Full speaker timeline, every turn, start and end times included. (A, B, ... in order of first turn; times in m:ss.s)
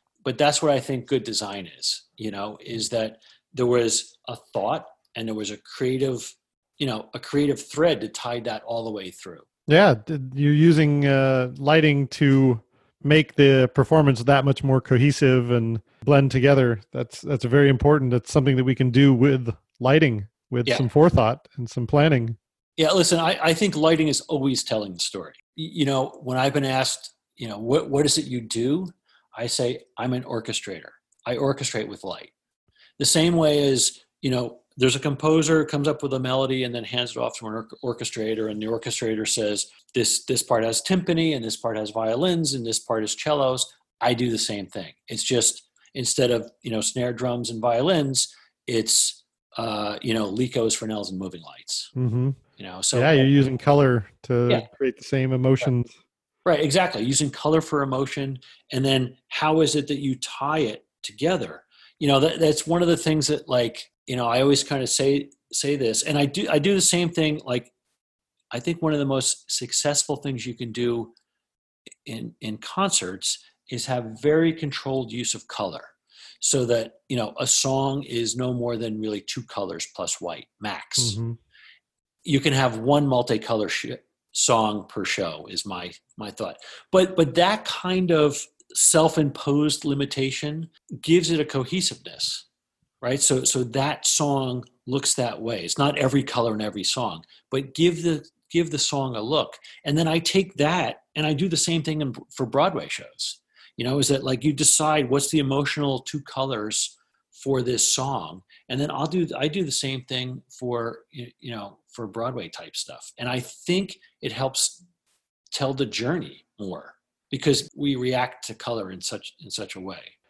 0:00.2-0:09.4 A
0:09.7-0:22.4 B
0:22.8-0:32.3 A
0:33.0-0:51.9 A
0:51.9-0:52.4 B
0:52.6-0:53.3 A
0:52.9-0:55.9 B
0:56.4-1:07.7 A
1:08.5-1:11.1 A
1:12.0-1:21.2 A
1:21.0-1:21.4 B
1:22.2-1:32.4 A
1:33.0-1:54.8 A
1:55.5-2:00.1 A